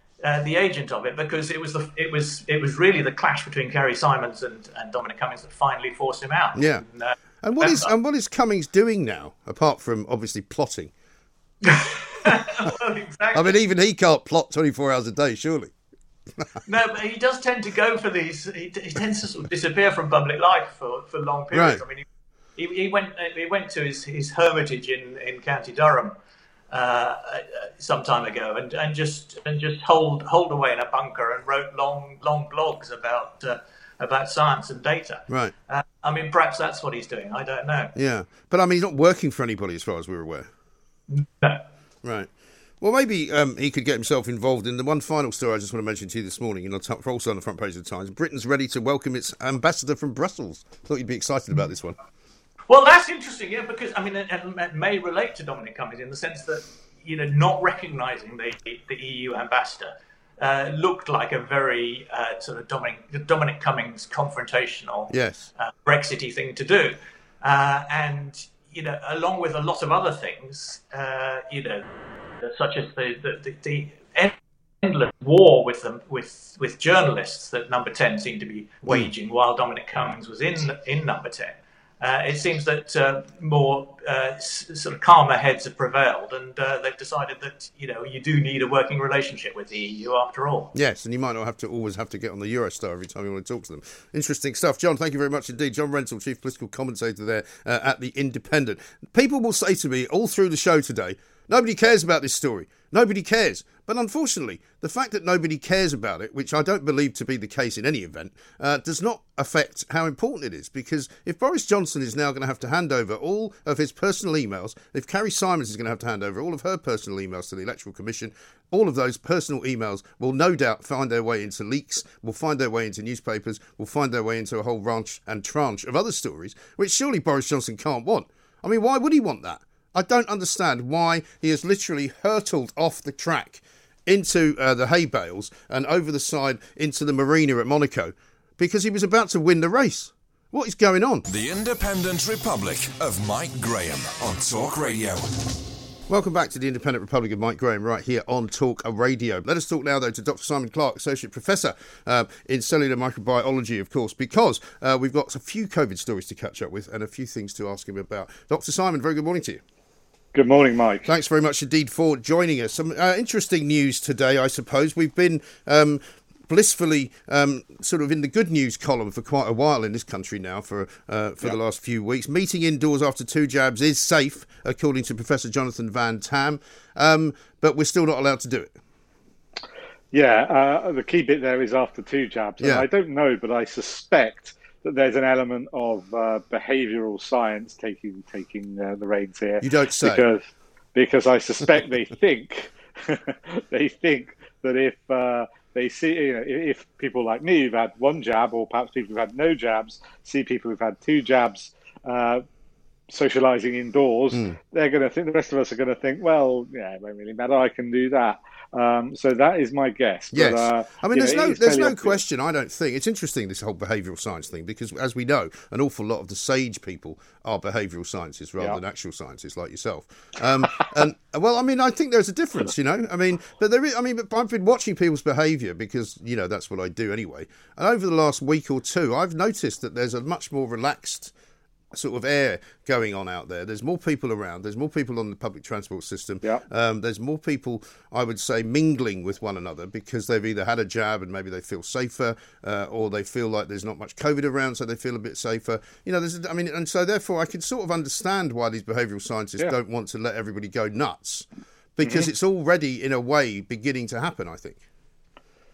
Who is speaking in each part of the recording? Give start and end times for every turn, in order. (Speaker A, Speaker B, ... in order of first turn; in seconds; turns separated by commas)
Speaker A: 0.2-7.9, Speaker B: 6.5-6.9, Speaker B: 7.4-10.9, Speaker A: 11.7-13.6, Speaker B: 13.3-15.7, Speaker A: 16.7-22.0, Speaker B: 21.5-21.8, Speaker A: 22.6-26.1, Speaker A: 26.7-37.9, Speaker B: 35.3-35.5, Speaker B: 38.0-40.5, Speaker A: 41.1-41.6, Speaker B: 42.0-42.3, Speaker B: 42.8-52.0, Speaker A: 52.7-71.8, Speaker B: 65.1-65.5, Speaker A: 72.4-90.7, Speaker B: 78.9-79.1, Speaker B: 90.7-141.3, Speaker C: 141.3-145.6, Speaker B: 146.1-159.6, Speaker D: 160.3-161.1, Speaker B: 161.1-178.8, Speaker D: 180.1-202.4, Speaker B: 182.6-182.9, Speaker B: 189.6-190.3, Speaker D: 203.1-212.2, Speaker B: 204.3-204.6, Speaker B: 210.3-231.3, Speaker B: 231.9-254.8, Speaker D: 252.0-252.3